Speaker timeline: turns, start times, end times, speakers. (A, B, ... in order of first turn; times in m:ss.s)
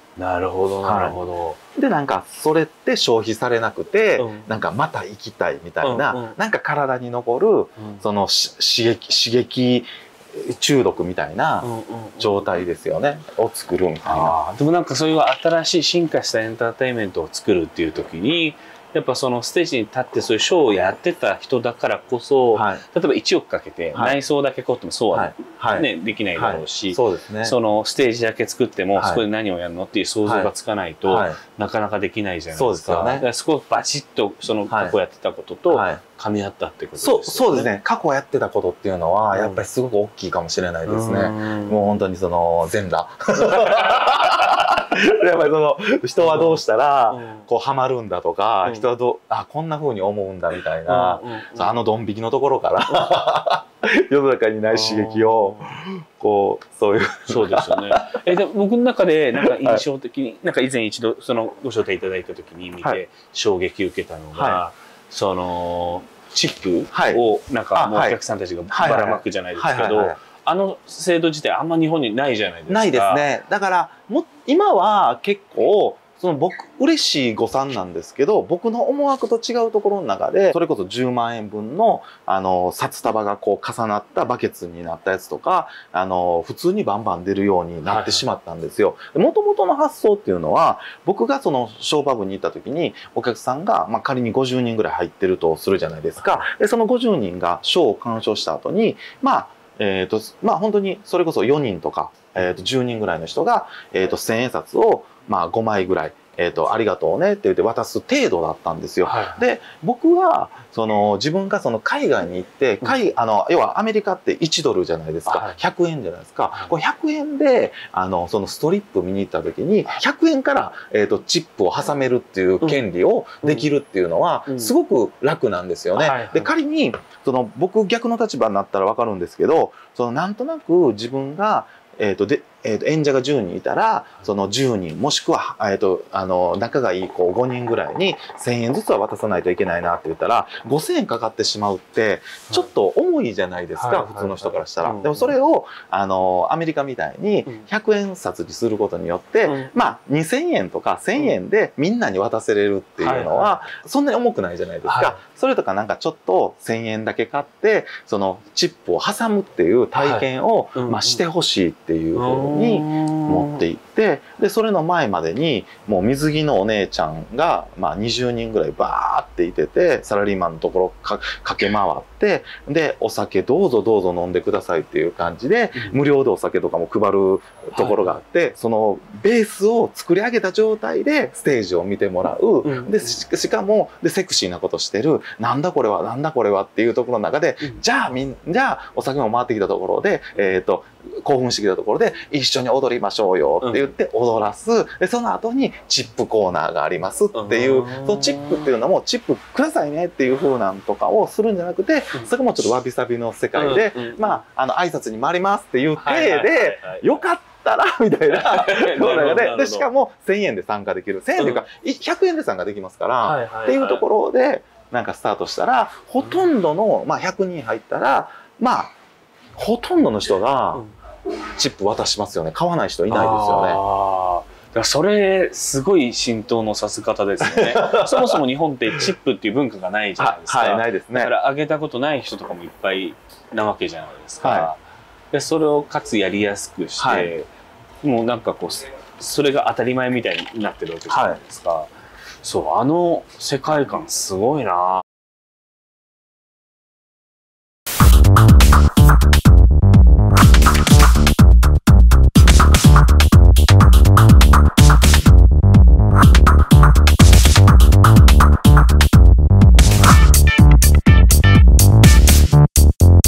0:00.2-0:01.6 A
0:00.8-0:01.2 B
0:01.8-0:14.3 B
0:04.2-0:04.5 A
0:05.8-0:06.4 A
0:07.8-0:08.0 A
0:11.6-0:12.6 A
0:14.0-0:37.7 A
0:22.5-0:22.8 B
0:25.1-0:27.6 B
0:29.0-0:29.2 B
0:30.2-0:30.5 B
0:31.0-0:31.4 B
0:32.5-0:33.2 B
0:34.7-0:34.9 B
0:35.7-0:36.0 B
0:37.0-0:58.2 B
0:39.3-0:39.6 A
0:40.8-0:42.0 A
0:43.4-0:44.1 A
0:46.2-0:47.4 A
0:50.8-0:51.8 A
0:54.7-0:55.7 A
0:57.3-1:13.3 A
0:59.4-0:59.8 B
1:04.3-1:04.6 B
1:06.9-1:07.2 B
1:07.7-1:08.2 B
1:08.7-1:10.2 B
1:12.7-3:38.9 B
1:27.8-1:28.2 A
1:49.0-1:49.4 A
1:55.2-1:55.6 A
2:03.4-2:03.7 A
2:04.5-2:04.7 A
2:06.0-2:06.6 A
2:23.8-2:25.3 A
2:29.4-2:29.7 A
2:33.0-2:33.6 A
2:34.8-2:35.2 A
2:40.0-2:41.2 A
2:42.1-2:43.6 A
2:55.7-2:56.0 A
2:57.7-2:58.2 A
3:02.6-3:03.2 A
3:13.6-3:13.9 A
3:17.3-3:18.7 A
3:23.5-3:24.4 A
3:26.0-3:27.2 A
3:28.3-3:29.9 A
3:31.4-3:31.6 A
3:33.2-3:34.0 A
3:36.2-3:36.5 A
3:39.6-3:40.8 B
3:41.5-3:43.8 B
3:43.1-3:57.5 A
3:47.4-3:48.4 B
3:50.2-3:51.3 B
3:54.4-3:54.7 B
3:57.0-3:57.3 B
3:58.0-4:05.0 A
4:01.1-4:01.4 B